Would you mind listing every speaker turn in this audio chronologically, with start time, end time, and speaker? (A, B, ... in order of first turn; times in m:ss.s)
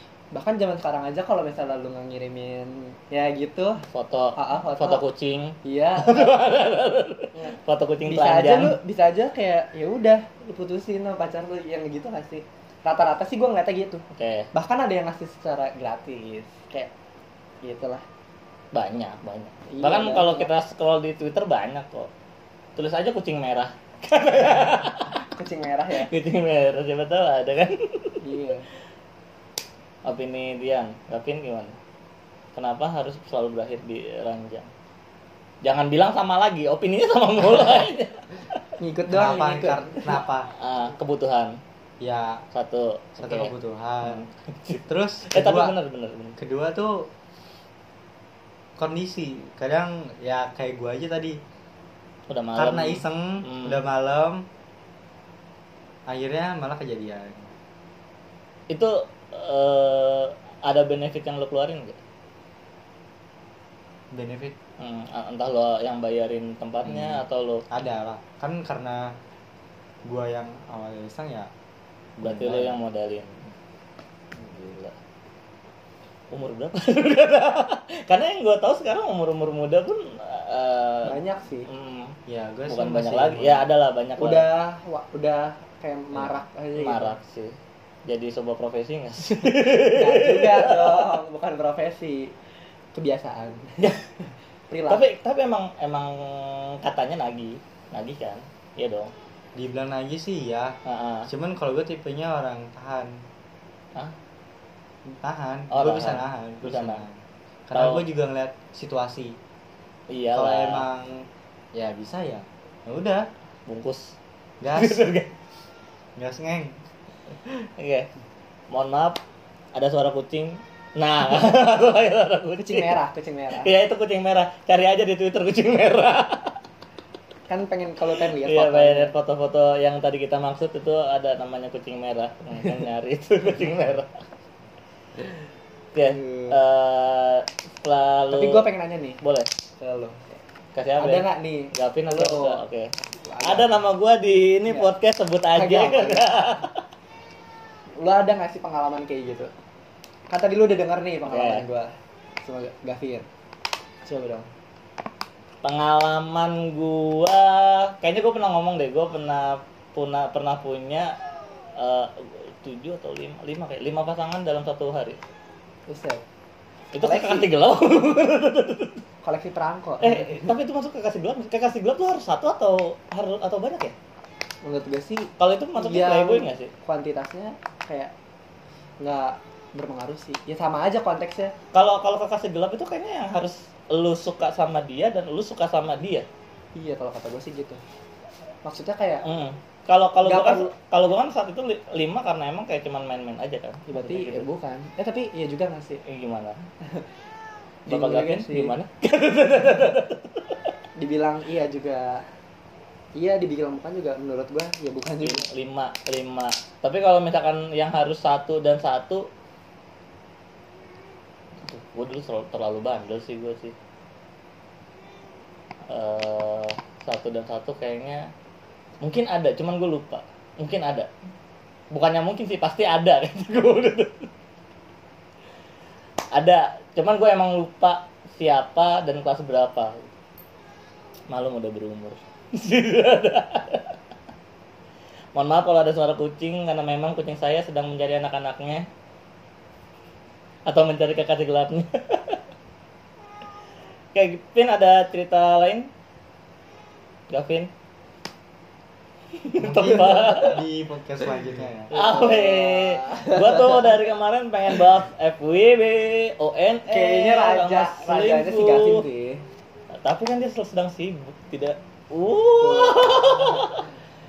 0:00.3-0:03.8 A
0:03.9-0:08.8 B
0:04.4-0:05.0 A
0:05.6-0:06.4 A
0:07.3-0:16.9 A
0:14.1-0:14.5 B
0:17.6-0:18.0 A
0:18.7-0:22.1 B
0:19.7-0:20.5 A
0:22.8-0:25.2 B
0:25.1-0:26.1 A
0:25.9-0:28.2 B
0:28.2-0:28.7 A
0:30.0-0:31.8 B
0:32.5-0:34.7 B
0:35.6-0:38.6 B
0:38.8-0:40.1 A
0:39.1-0:40.5 C
0:40.5-0:41.6 B
0:42.0-0:42.4 C
0:42.5-0:46.4 B
0:43.2-0:44.3 C
0:44.8-0:45.8 C
0:46.4-0:47.1 C
0:48.8-0:51.4 C
0:52.3-0:53.8 B
0:52.5-0:54.4 C
0:56.1-0:57.5 C
0:58.7-1:02.0 B
1:04.1-1:04.6 C
1:04.8-1:07.6 B
1:06.8-1:09.2 C
1:10.0-1:11.5 C
1:12.2-1:12.8 C
1:12.2-1:13.4 B
1:14.3-1:15.0 B
1:16.3-1:22.2 B
1:21.0-1:21.7 A
1:22.3-1:23.7 C
1:22.7-1:24.4 B
1:24.2-1:27.2 A
1:26.2-1:31.1 B
1:29.8-1:32.3 A
1:32.9-1:34.0 A
1:34.7-1:35.0 A
1:34.9-1:39.1 B
1:39.5-1:43.2 C
1:40.8-1:41.3 B
1:45.2-1:49.4 C
1:45.7-1:47.0 B
1:47.7-1:48.0 B
1:50.1-1:50.9 B
1:50.3-1:53.3 C
1:53.7-1:54.2 B
1:54.6-1:55.1 C
1:54.7-1:55.3 B
1:56.2-1:56.8 C
1:57.8-1:58.1 B
1:58.7-1:59.2 B
1:59.7-2:02.9 B
2:02.6-2:03.7 A
2:03.6-2:06.6 B
2:07.5-2:09.1 A
2:08.2-2:14.1 B
2:15.9-2:18.7 B
2:16.0-2:16.6 A
2:18.3-2:19.2 A
2:19.2-2:19.5 B
2:19.8-2:20.4 A
2:20.7-2:22.9 B
2:21.0-2:23.8 A
2:23.4-2:26.8 B
2:25.5-2:26.6 A
2:28.0-2:29.5 A
2:30.3-2:31.9 A
2:31.3-2:31.6 B
2:32.4-2:33.3 A
2:34.0-2:34.5 A
2:35.6-2:41.2 B
2:41.7-2:45.2 B
2:45.9-2:46.2 A
2:46.9-2:49.0 B
2:46.9-2:47.5 A
2:49.2-2:50.5 A
2:50.0-2:53.9 B
2:54.6-2:58.1 A
2:55.4-2:56.7 B
2:59.0-3:01.5 A
3:01.7-3:06.2 B
3:06.7-3:07.8 A
3:08.6-3:09.2 A
3:09.2-3:14.5 B
3:10.2-3:10.7 A
3:13.9-3:16.0 A
3:16.0-3:16.6 B
3:17.8-3:20.6 B
3:17.9-3:18.8 A
3:21.0-3:22.2 A
3:23.1-3:25.5 A
3:25.2-3:29.3 B
3:31.6-3:33.7 B
3:35.9-3:38.3 B
3:39.0-3:41.1 B
3:41.9-3:44.3 B
3:46.3-3:50.1 B
3:51.3-3:53.9 B
3:55.3-3:58.9 B
4:00.6-4:02.4 B
4:04.1-4:05.9 B
4:07.3-4:07.7 B
4:09.4-4:10.6 B
4:09.6-4:11.9 C
4:11.9-4:14.0 A
4:11.9-4:19.0 B
4:16.9-4:19.4 A
4:20.0-4:23.9 B
4:22.6-4:23.6 A